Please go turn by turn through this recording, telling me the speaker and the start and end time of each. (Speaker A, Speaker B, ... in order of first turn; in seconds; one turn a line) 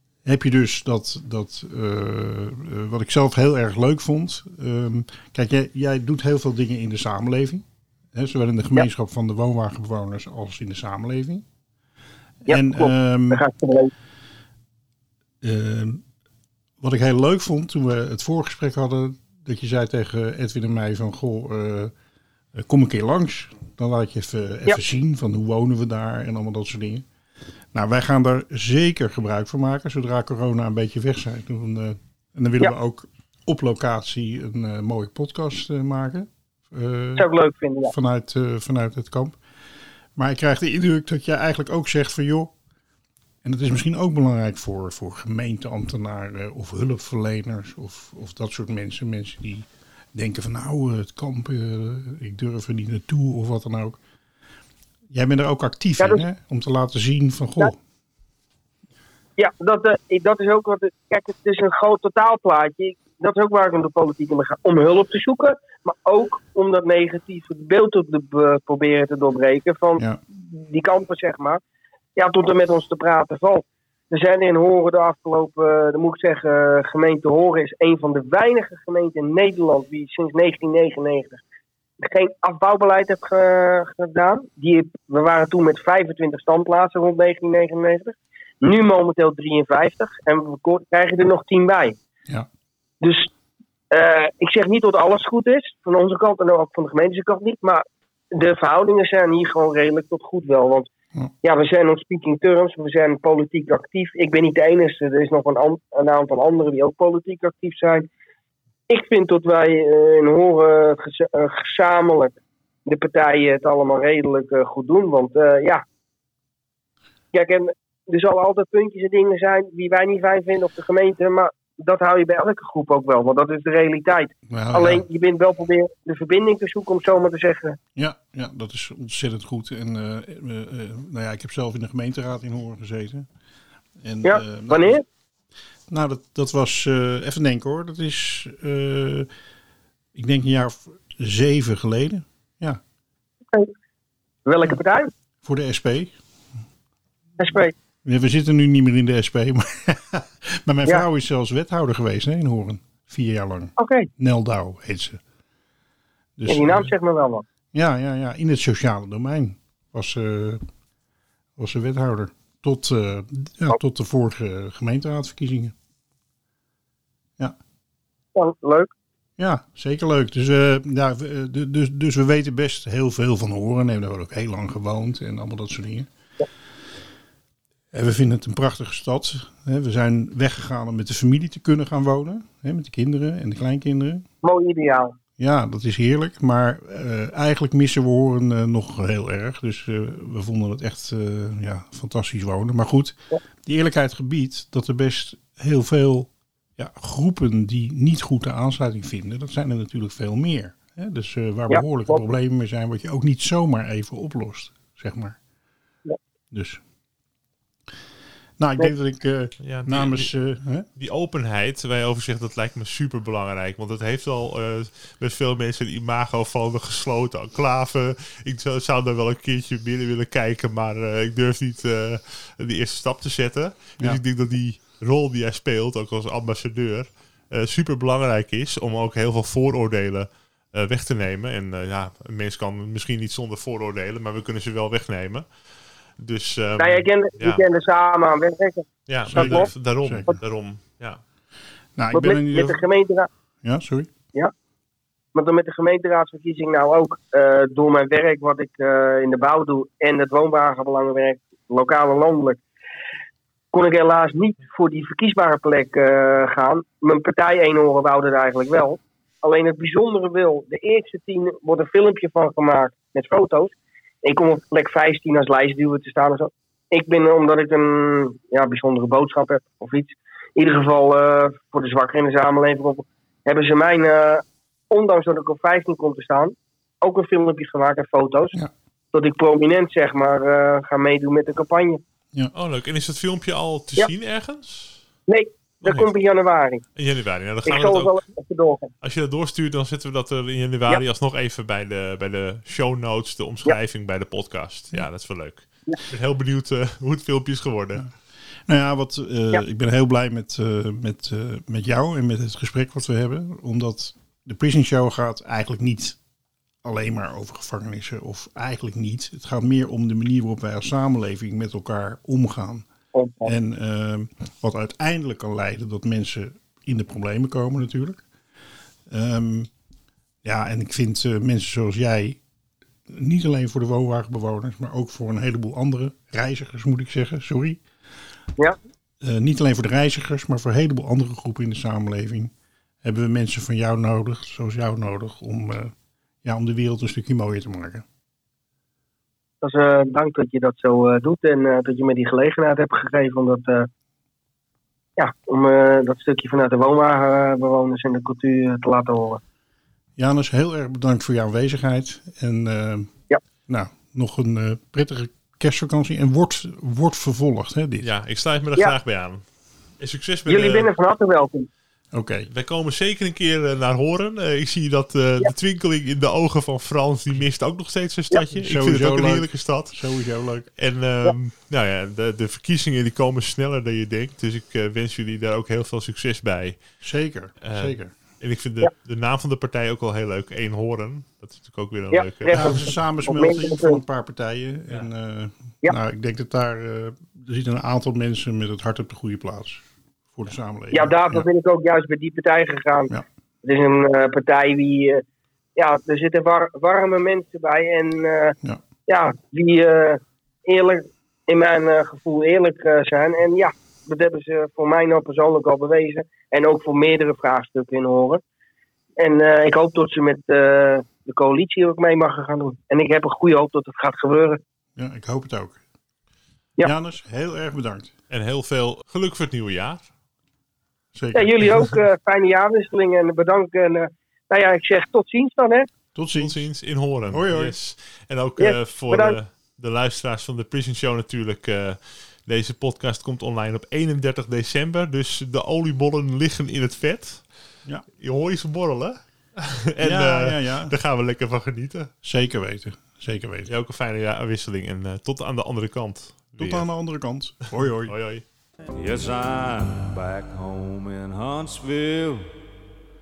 Speaker A: 0.2-11.4
Speaker B: 12.5-13.9
Speaker A: 12.5-13.4
Speaker A: 15.4-16.0
Speaker A: 16.8-21.9
Speaker A: 22.5-27.1
Speaker A: 27.7-37.3
Speaker B: 37.2-37.9
Speaker A: 37.9-39.4
Speaker A: 40.1-42.5
Speaker A: 43.4-54.0
Speaker A: 55.1-57.8
Speaker B: 59.4-71.6
Speaker B: 72.2-81.4
Speaker B: 82.0-92.0
Speaker B: 93.0-93.3
Speaker B: 93.9-100.9
Speaker B: 101.4-108.1
Speaker B: 108.9-115.8
Speaker B: 117.3-127.8
Speaker A: 124.5-125.0
Speaker A: 127.9-133.3
Speaker A: 134.0-135.0
Speaker B: 134.2-135.0
Speaker A: 135.9-139.3
Speaker A: 140.1-142.8
Speaker B: 144.4-145.1
Speaker A: 145.4-146.1
Speaker B: 147.4-147.7
Speaker A: 148.0-155.2
Speaker B: 153.8-154.1
Speaker A: 156.4-156.9
Speaker B: 156.5-157.4
Speaker A: 157.7-160.6
Speaker A: 161.6-165.7
Speaker B: 168.3-168.9
Speaker A: 169.4-176.1
Speaker A: 177.9-184.2
Speaker B: 184.4-185.1
Speaker A: 185.4-205.4
Speaker B: 201.7-202.2
Speaker A: 206.5-206.8
Speaker A: 208.6-210.8
Speaker C: 209.6-210.3
Speaker C: 210.9-237.6
Speaker B: 236.8-239.7
Speaker C: 239.1-241.2
Speaker A: 239.2-240.4
Speaker A: 241.9-242.8
Speaker B: 242.1-243.3
Speaker A: 243.6-244.1
Speaker B: 245.3-252.6
Speaker B: 253.7-278.6
Speaker B: 279.1-282.0
Speaker C: 282.5-285.0
Speaker B: 285.3-286.8
Speaker C: 285.8-286.1
Speaker C: 286.9-288.2
Speaker B: 287.6-288.9
Speaker C: 289.0-298.1
Speaker A: 298.6-306.2
Speaker A: 306.8-312.9
Speaker B: 313.1-313.5
Speaker A: 313.4-318.2
Speaker A: 319.1-319.7
Speaker A: 320.4-322.4
Speaker A: 323.1-327.8
Speaker A: 329.2-332.5
Speaker A: 333.0-335.9
Speaker A: 336.4-338.0
Speaker B: 339.6-343.9
Speaker B: 345.2-349.4
Speaker A: 350.2-353.1
Speaker A: 353.7-358.1
Speaker C: 358.0-360.9
Speaker B: 360.5-361.7
Speaker A: 362.1-362.5
Speaker C: 362.5-370.0
Speaker A: 368.6-370.7
Speaker C: 370.7-382.9
Speaker A: 377.0-378.1
Speaker B: 382.1-384.0
Speaker A: 382.5-391.4
Speaker B: 390.9-393.1
Speaker B: 393.6-395.2
Speaker B: 395.8-398.6
Speaker B: 399.1-408.4
Speaker B: 409.2-414.6
Speaker A: 414.9-415.8
Speaker A: 416.8-418.1
Speaker C: 418.3-420.1
Speaker A: 421.1-422.0
Speaker B: 421.3-425.9
Speaker A: 426.1-426.6
Speaker C: 426.4-442.1
Speaker A: 427.3-427.8
Speaker B: 428.6-429.4
Speaker A: 440.0-440.9
Speaker A: 442.2-443.7
Speaker C: 443.7-446.9
Speaker A: 446.6-448.1
Speaker C: 447.7-448.4
Speaker D: 448.9-452.5